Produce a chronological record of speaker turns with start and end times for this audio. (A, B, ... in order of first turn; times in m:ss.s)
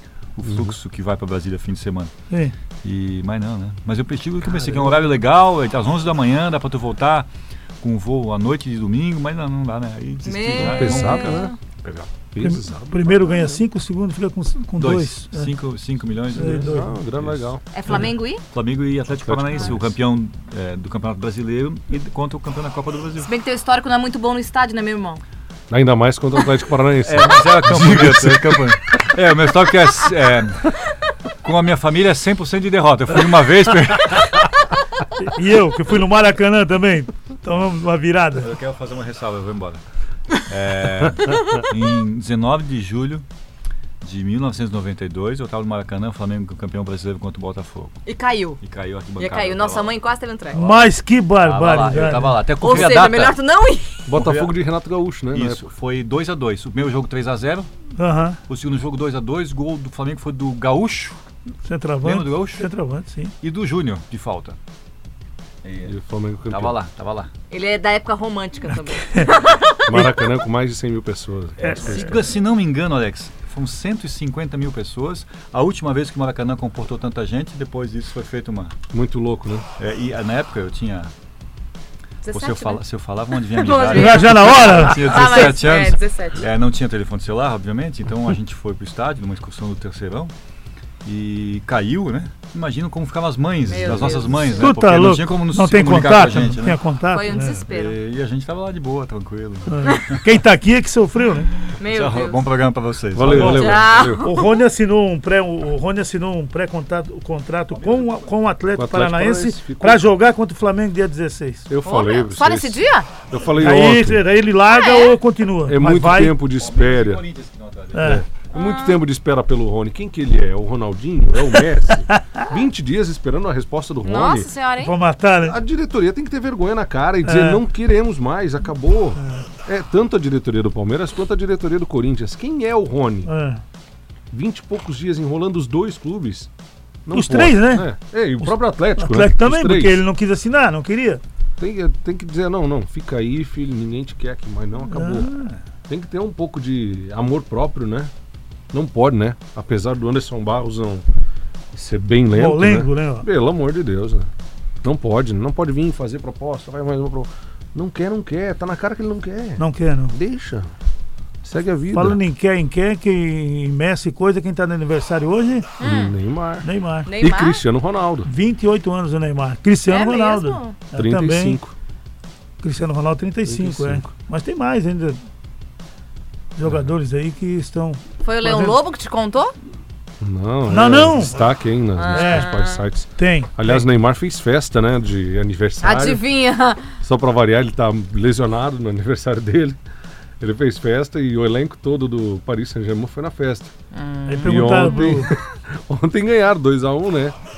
0:00.4-0:02.1 A
0:00.4-0:00.8 B
0:02.8-0:07.3 A
0:04.4-0:05.0 C
0:07.8-0:12.1 A
0:10.2-0:11.6 D
0:10.6-0:11.5 B
0:12.3-0:13.6 B
0:12.4-0:15.5 C
0:14.8-0:23.3 A
0:16.3-0:17.6 B
0:16.4-0:16.9 C
0:17.7-0:18.4 D
0:19.2-0:20.0 B
0:23.2-0:25.2 D
0:25.7-0:28.8 B
0:27.0-0:30.8 A
0:31.4-0:34.6 A
0:35.2-0:38.5 C
0:38.4-0:39.8 A
0:40.3-0:43.2 A
0:44.0-0:48.0 A
0:48.1-0:48.6 D
0:48.6-0:49.9 A
0:49.2-0:50.7 D
0:50.5-0:52.4 C
0:51.4-0:53.4 A
0:52.6-0:54.1 D
0:54.1-0:55.6 B
0:54.1-0:54.5 A
0:55.3-0:57.7 A
0:58.0-0:58.4 C
0:58.5-1:01.2 A
1:01.6-1:03.3 C
1:02.0-1:02.7 A
1:03.4-1:04.6 A
1:05.6-1:05.9 A
1:05.8-1:06.8 B
1:06.5-1:07.3 A
1:07.5-1:09.8 D
1:09.9-1:12.2 B
1:11.6-1:18.8 A
1:11.6-1:12.1 C
1:18.9-1:19.7 B
1:19.8-1:21.1 A
1:22.2-1:22.8 D
1:22.3-1:30.3 A
1:23.5-1:26.4 D
1:23.9-1:25.5 C
1:31.0-1:36.8 A
1:33.7-1:34.7 D
1:34.6-1:37.6 C
1:37.1-1:38.0 D
1:37.7-1:40.2 A
1:39.7-1:41.5 C
1:41.6-1:43.8 A
1:41.8-1:42.4 D
1:43.1-1:44.3 B
1:43.2-1:43.7 C
1:43.3-1:44.5 D
1:44.2-1:51.7 C
1:47.7-1:48.4 A
1:48.8-1:50.1 B
1:51.7-1:54.2 B
1:51.8-1:53.1 D
1:53.5-1:56.4 C
1:54.7-1:55.2 D
1:55.7-1:57.2 B
1:56.6-1:58.2 A
1:57.9-1:58.2 C
1:58.0-2:04.5 B
1:58.5-1:59.0 D
2:04.0-2:05.0 D
2:04.8-2:05.6 C
2:05.4-2:13.3 B
2:07.2-2:07.6 C
2:09.2-2:09.5 C
2:13.3-2:13.6 C
2:14.3-2:16.5 B
2:17.0-2:20.0 B
2:17.1-2:17.9 C
2:18.4-2:21.2 C
2:21.6-2:25.4 B
2:24.9-2:25.6 C
2:25.9-2:28.1 B
2:28.7-2:31.1 B
2:31.7-2:34.3 B
2:32.3-2:33.3 C
2:34.8-2:40.7 B
2:39.6-2:40.2 C
2:41.4-2:42.2 B
2:41.9-2:45.7 C
2:45.8-2:46.2 D
2:45.8-2:46.7 B
2:46.6-2:47.1 C
2:47.0-2:47.6 D
2:47.2-2:48.3 B
2:48.2-2:51.6 C
2:49.9-2:50.8 D
2:50.9-2:51.7 B
2:52.6-2:55.2 C
2:53.4-2:54.1 B
2:56.6-2:58.8 C
2:56.6-2:56.9 B
2:58.2-2:59.5 D
3:00.2-3:06.2 B
3:00.7-3:01.4 C
3:02.0-3:02.8 D
3:02.1-3:02.5 C
3:03.2-3:03.8 C
3:05.8-3:06.9 D
3:07.0-3:09.8 B
3:10.4-3:13.7 B
3:13.9-3:15.2 D
3:14.3-3:15.3 C
3:14.4-3:17.4 B